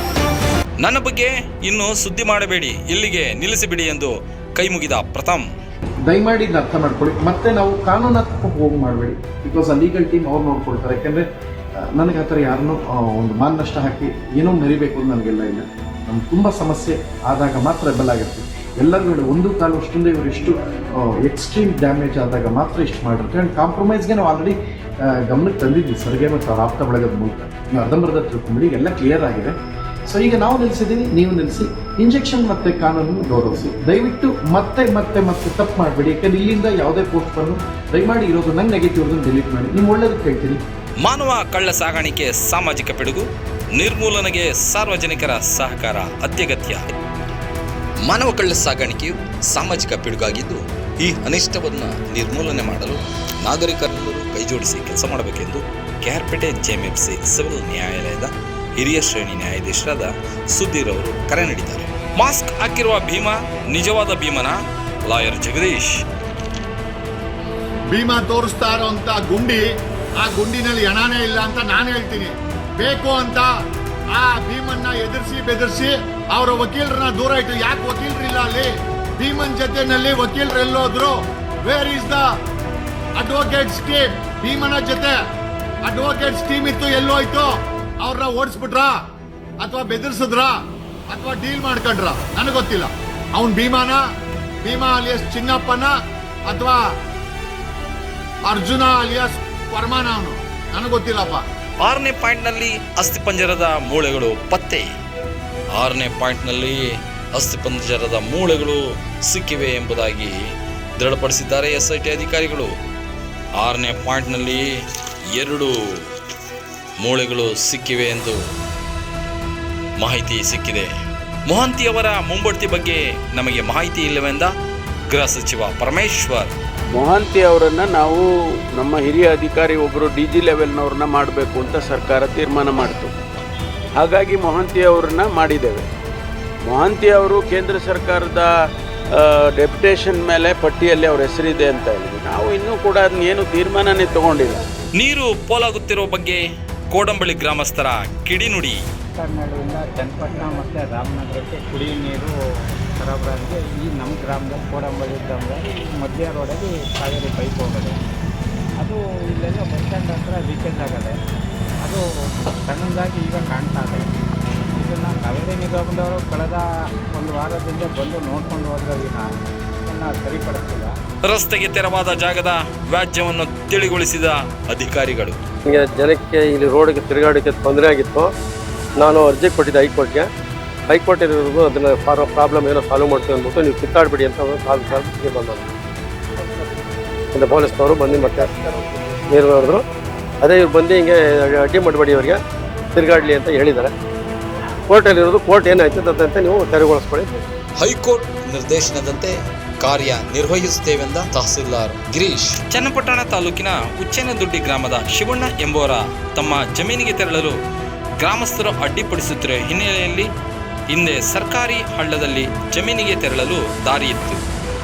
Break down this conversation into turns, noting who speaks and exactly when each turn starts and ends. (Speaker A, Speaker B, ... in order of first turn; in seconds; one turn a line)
Speaker A: 0.8-5.5
Speaker B: 6.1-11.3
Speaker B: 11.9-29.6
Speaker B: 30.1-40.6
Speaker A: 41.0-46.8
Speaker A: 48.1-65.9
Speaker C: 67.9-73.5
Speaker C: 74.1-82.3
Speaker C: 83.2-85.2
Speaker C: 85.8-87.5
Speaker C: 88.0-89.0
Speaker C: 89.6-90.6
Speaker C: 91.1-94.0
Speaker C: 94.6-95.9
Speaker C: 96.5-96.8
Speaker C: 98.5-101.5
Speaker A: 101.8-104.9
Speaker A: 105.8-106.8
Speaker A: 107.3-110.3
Speaker A: 111.0-112.7
Speaker A: 113.6-114.7
Speaker A: 115.4-115.8
Speaker A: 117.0-118.4
Speaker A: 120.0-120.9
Speaker A: 121.5-124.5
Speaker A: 125.1-126.5
Speaker D: 126.9-133.1
Speaker D: 134.0-135.9
Speaker D: 136.7-138.5
Speaker D: 139.1-144.6
Speaker A: 145.0-146.4
Speaker A: 146.9-148.8
Speaker E: 149.2-152.3
Speaker E: 153.0-158.0
Speaker E: 158.8-161.1
Speaker E: 162.7-164.1
Speaker E: 164.8-169.3
Speaker E: 169.8-170.9
Speaker A: 171.2-175.4
Speaker F: 175.7-178.3
Speaker F: 179.0-180.3
Speaker F: 180.9-185.7
Speaker F: 187.3-189.9
Speaker F: 190.4-192.4
Speaker F: 192.9-193.9
Speaker F: 194.9-197.4
Speaker A: 197.8-207.6
Speaker A: 208.2-210.3
Speaker A: 210.9-214.4